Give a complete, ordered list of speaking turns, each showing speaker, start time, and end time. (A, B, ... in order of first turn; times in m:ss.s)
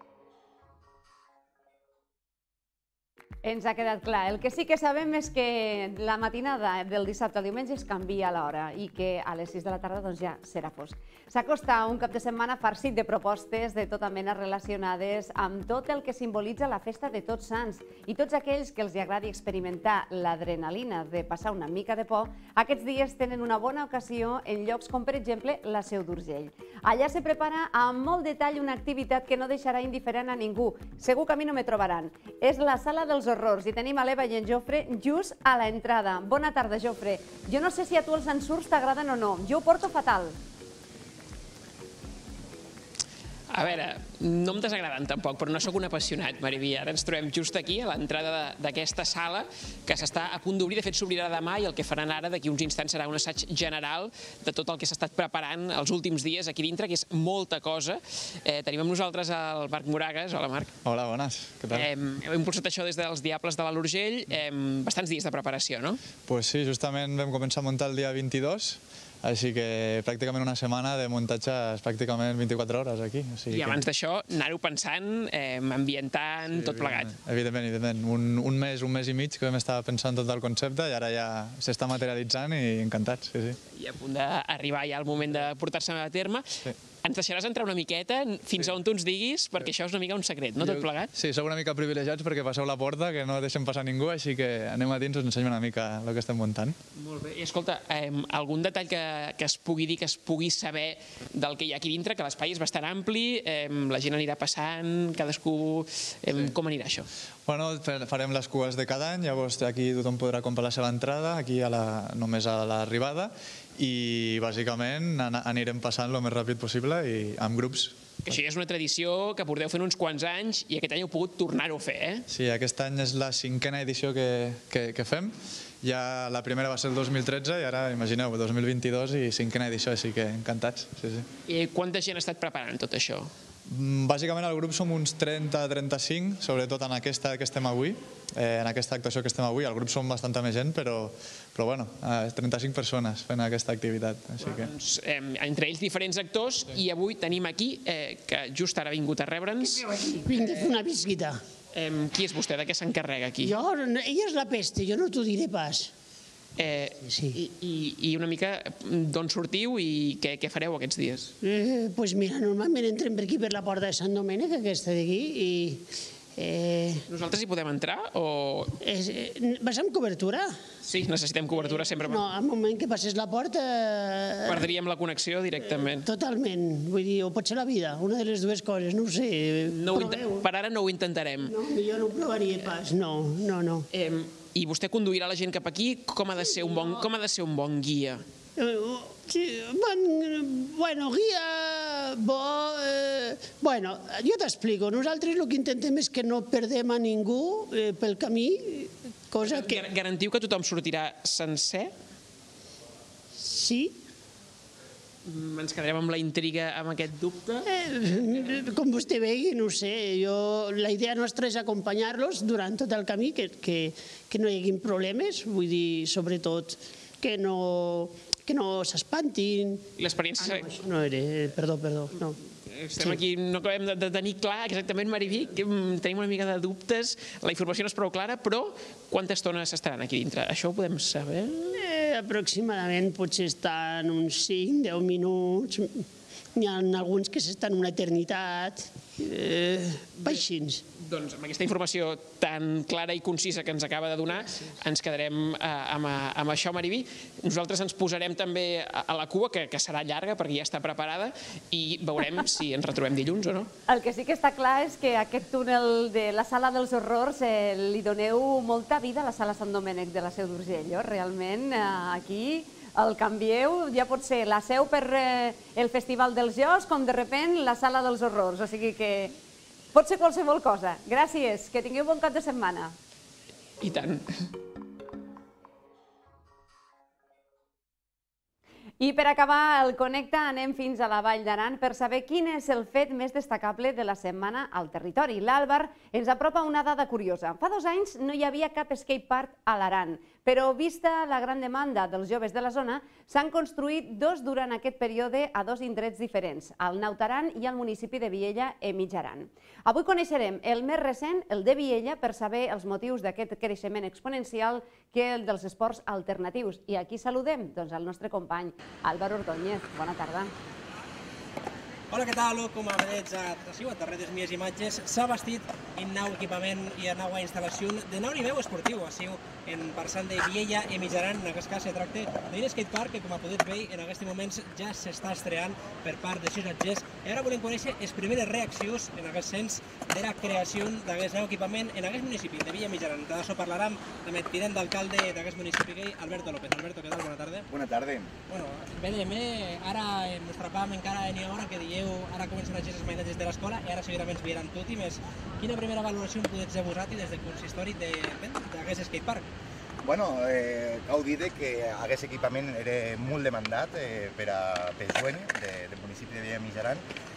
0:03.4-0:40.4 A
0:43.5-1:00.7 B
1:00.8-1:01.9 C
1:01.7-1:06.0 B
1:06.2-1:13.8 C
1:13.5-1:17.2 B
1:16.5-1:23.6 C
1:23.7-1:26.5 B
1:27.0-1:31.1 B
1:30.6-1:36.8 C
1:37.0-1:47.1 B
1:47.4-1:57.9 C
1:58.2-2:02.2 B
2:02.3-2:11.3 C
2:11.5-2:13.3 B
2:13.6-2:24.7 C
2:24.4-2:29.9 B
2:29.6-2:31.4 D
2:31.7-2:33.5 B
2:33.4-2:35.9 D
2:36.6-2:41.3 B
2:37.0-2:37.4 D
2:41.4-2:45.8 D
2:46.4-2:47.0 D
2:47.1-2:48.7 B
2:48.8-2:50.6 D
2:50.8-2:52.2 B
2:51.5-2:54.7 D
2:54.5-2:56.1 B
2:55.6-3:00.5 D
2:59.7-3:01.5 B
3:01.4-3:03.9 D
3:03.9-3:08.2 B
3:06.4-3:07.0 D
3:08.6-3:19.9 D
3:19.4-3:21.9 B
3:23.3-3:24.0 D
3:25.2-3:27.6 B
3:27.6-3:42.4 D
3:40.0-3:40.7 B
3:42.7-3:51.5 B
3:42.9-3:43.2 D
3:51.6-4:00.9 D
4:00.9-4:13.7 B
4:13.9-4:29.4 A
4:29.9-4:33.0 A
4:33.8-4:34.3 B
4:39.0-5:10.5 A
5:12.1-5:37.7 E
5:37.7-5:38.3 F
5:38.5-5:49.5 E
5:50.0-5:57.0 F